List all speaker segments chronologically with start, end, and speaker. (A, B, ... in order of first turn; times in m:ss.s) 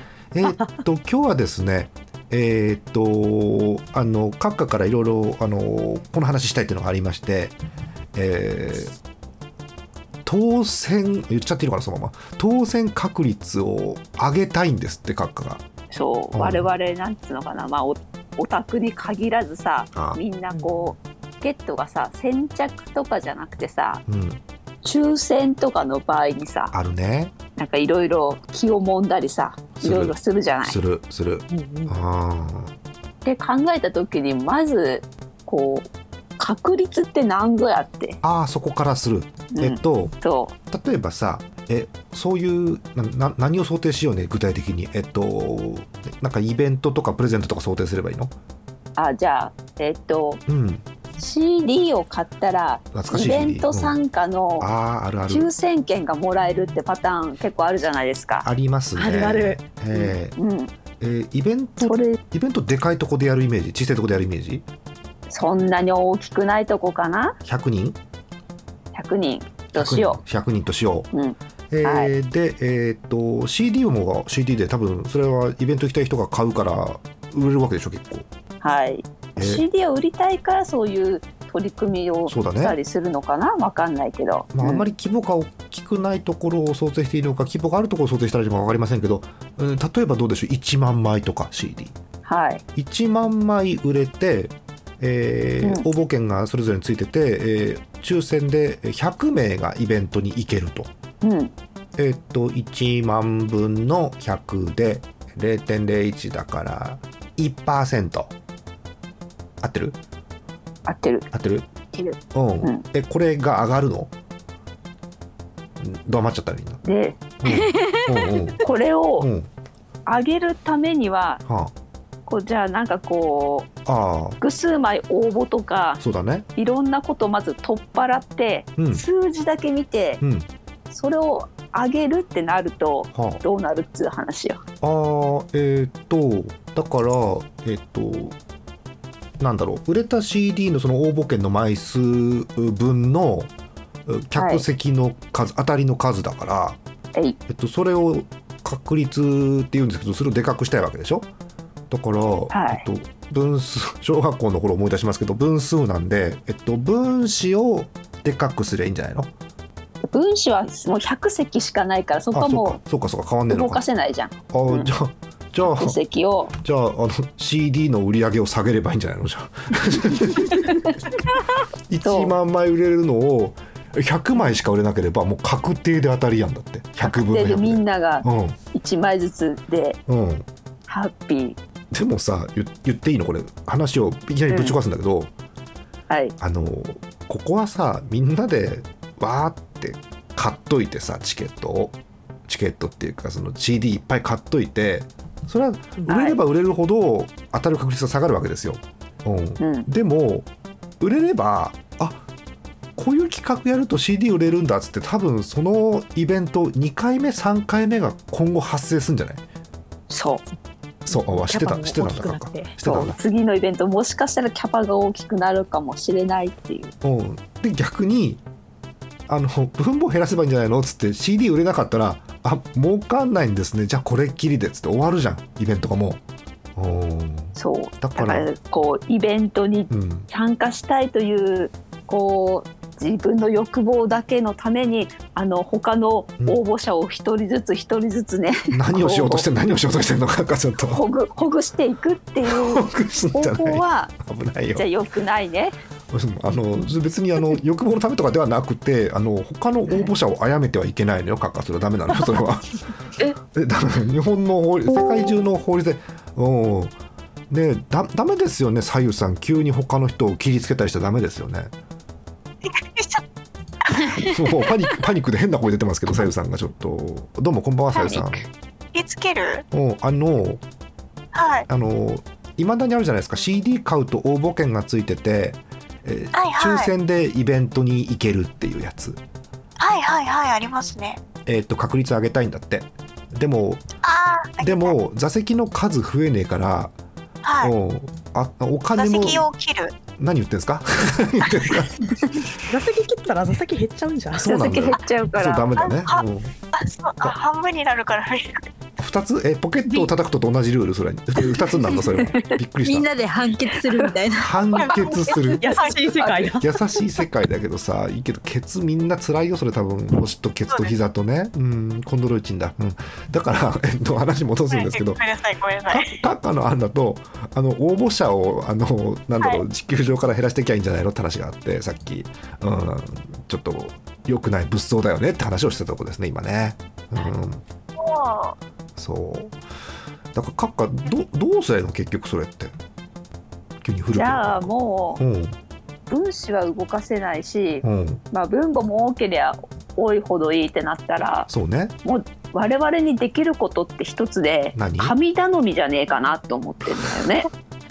0:00.3-0:07.6 A
0:00.4-0:00.8 B
0:08.1-0:09.0 A
0:10.2-0:15.6 A
0:15.9-0:24.0 C
0:16.3-0:16.7 A
0:20.0-0:20.2 A
0:24.1-0:24.4 A
0:24.8-0:26.7 C
0:26.7-0:27.3 A
0:27.6-0:30.8 C
0:29.8-0:32.7 A
0:31.5-0:32.0 B
0:33.2-0:38.2 C
0:38.2-0:40.1 A
0:39.5-0:40.6 C
0:40.7-0:48.3 A
0:49.0-0:50.4 C
0:50.5-0:50.9 A
0:51.2-0:54.7 C
0:52.9-0:54.0 A
0:54.6-0:55.5 A
0:55.3-0:58.5 C
0:58.4-1:00.4 A
0:59.0-0:59.6 B
0:59.9-1:00.7 C
1:01.0-1:04.6 A
1:01.8-1:02.2 C
1:05.3-1:07.4 C
1:07.4-1:08.0 A
1:08.9-1:10.2 C
1:09.8-1:11.1 A
1:11.1-1:12.1 C
1:11.7-1:18.3 A
1:18.6-1:24.8 C
1:19.4-1:19.6 A
1:22.3-1:22.8 A
1:24.5-1:32.0 A
1:32.2-1:32.6 C
1:32.8-1:40.9 A
1:35.6-1:35.9 C
1:41.2-1:41.5 C
1:42.0-1:48.3 A
1:49.6-1:50.0 A
1:50.9-1:51.3 C
1:51.3-1:51.7 A
1:51.9-1:52.8 C
1:52.3-1:54.1 A
1:55.8-1:56.8 A
1:56.8-1:57.8 C
1:57.4-1:58.7 A
1:58.6-1:59.3 C
1:59.2-1:59.5 A
2:00.0-2:01.4 C
2:01.4-2:01.7 A
2:02.3-2:03.7 C
2:03.9-2:04.4 A
2:04.4-2:06.0 C
2:06.0-2:06.4 A
2:06.6-2:10.2 C
2:08.8-2:09.0 A
2:10.2-2:10.5 A
2:10.9-2:14.6 C
2:13.1-2:13.4 A
2:14.8-2:18.4 A
2:19.4-2:23.5 A
2:24.1-2:26.8 A
2:24.4-2:24.6 C
2:27.5-2:31.3 A
2:31.9-2:39.3 A
2:32.5-2:32.8 C
2:40.1-2:42.8 C
2:42.3-2:43.8 A
2:43.5-2:44.9 C
2:44.5-2:46.0 A
2:45.6-2:46.6 C
2:46.6-2:50.9 A
2:50.5-2:51.0 C
2:51.9-2:58.6 A
2:52.0-2:52.3 C
2:57.0-3:00.0 C
3:00.1-3:00.4 A
3:00.9-3:01.6 C
3:01.9-3:05.3 A
3:04.5-3:04.8 C
3:06.1-3:06.4 C
3:06.4-3:12.0 A
3:12.5-3:20.5 A
3:16.1-3:16.4 C
3:19.6-3:19.9 C
3:21.0-3:22.2 A
3:23.0-3:29.4 A
3:30.1-3:30.4 C
3:31.0-3:33.2 A
3:31.1-3:32.7 B
3:32.8-3:36.9 C
3:37.0-3:38.4 A
3:39.3-3:46.2 A
3:46.8-3:48.5 A
3:47.6-3:59.5 C
3:49.9-3:50.3 A
3:58.7-4:01.0 A
4:00.8-4:04.2 C
4:02.5-4:04.9 A
4:04.8-4:05.8 C
4:06.1-4:12.8 A
4:13.4-4:16.9 A
4:17.5-4:21.7 A
4:22.7-4:23.2 D
4:23.8-4:24.2 D
4:24.2-4:28.5 A
4:27.9-4:28.4 C
4:28.9-4:29.6 D
4:29.7-4:30.6 A
4:31.3-4:31.7 D
4:31.7-4:39.2 A
4:36.3-4:36.9 D
4:39.8-4:41.2 D
4:41.5-4:43.9 A
4:44.0-4:44.9 D
4:44.6-4:46.9 A
4:47.4-4:47.7 D
4:47.6-4:49.5 A
4:48.9-4:50.0 D
4:50.1-4:52.1 A
4:52.7-4:54.6 B
4:54.4-4:56.5 A
4:54.4-4:55.7 C
4:55.8-4:58.7 D
4:59.0-5:03.1 A
5:02.2-5:02.6 C
5:02.8-5:05.6 E
5:03.8-5:04.2 C
5:04.4-5:05.6 A
5:04.8-5:06.2 D
5:05.6-5:06.8 B
5:06.5-5:15.2 A
5:10.7-5:11.0 D
5:14.7-5:16.1 D
5:15.9-5:27.6 A
5:27.9-5:28.6 D
5:29.0-5:29.6 A
5:30.3-5:32.8 A
5:33.8-5:35.6 A
5:34.1-5:35.2 C
5:36.1-5:41.5 C
5:37.8-5:38.2 A
5:41.5-5:41.9 A
5:42.0-5:47.5 C
5:44.8-5:45.2 A